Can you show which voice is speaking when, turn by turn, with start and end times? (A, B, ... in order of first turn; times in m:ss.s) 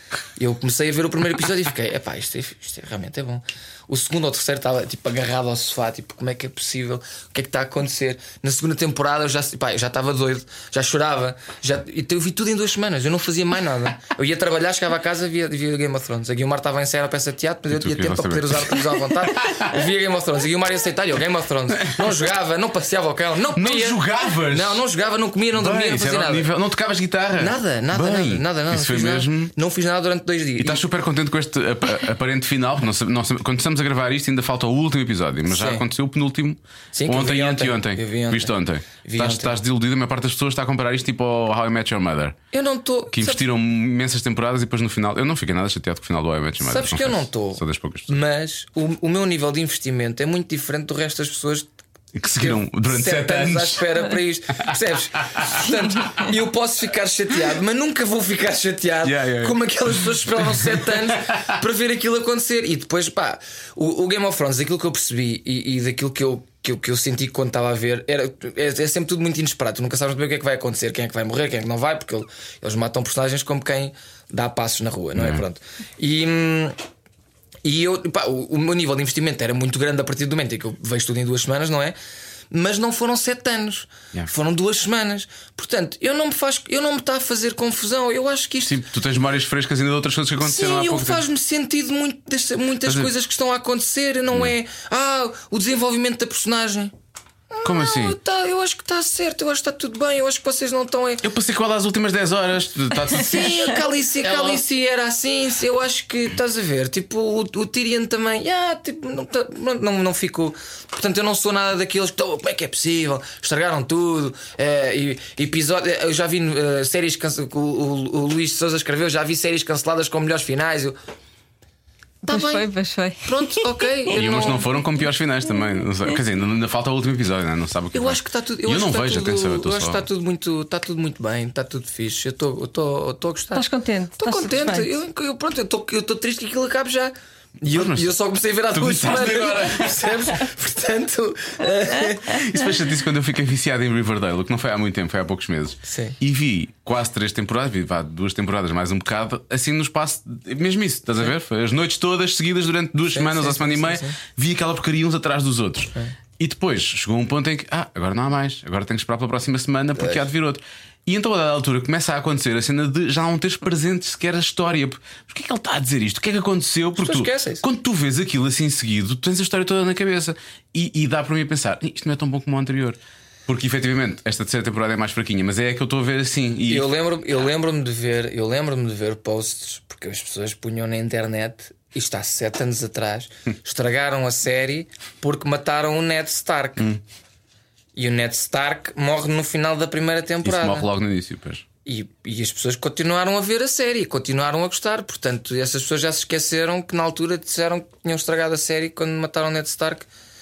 0:00.4-0:26.5 A
0:17.7-0:19.7 B
0:21.8-0:22.1 B
0:23.5-0:24.8 B
0:25.5-0:29.5 B
0:27.4-0:30.8 A
0:30.6-0:42.4 B
0:35.5-0:35.8 A
0:36.9-0:39.6 A
0:42.5-0:43.4 A
0:43.1-0:48.1 B
0:46.6-0:51.7 A
0:52.1-0:54.0 B
0:52.3-1:16.8 A
0:54.6-0:55.6 B
0:59.0-0:59.6 B
1:00.4-1:01.4 B
1:15.1-1:15.4 B
1:17.6-1:22.0 A
1:22.5-1:28.8 A
1:28.6-1:31.2 B
1:30.4-1:36.9 A
1:32.8-1:33.1 B
1:37.5-1:41.2 A
1:37.6-1:38.2 B
1:41.2-1:44.6 B
1:43.1-2:01.0 A
2:02.2-2:03.8 C
2:02.2-2:02.7 A
2:03.2-2:04.6 A
2:04.1-2:10.0 B
2:07.9-2:13.6 A
2:13.5-2:14.9 C
2:14.2-2:22.5 A
2:17.7-2:20.2 B
2:22.2-2:56.9 B
2:25.8-2:26.2 A
2:33.1-2:34.2 A
2:40.0-2:40.2 A
2:47.0-2:47.6 A
2:56.7-3:06.9 A
3:08.0-3:10.9 A
3:10.4-3:11.6 B
3:11.8-3:20.1 A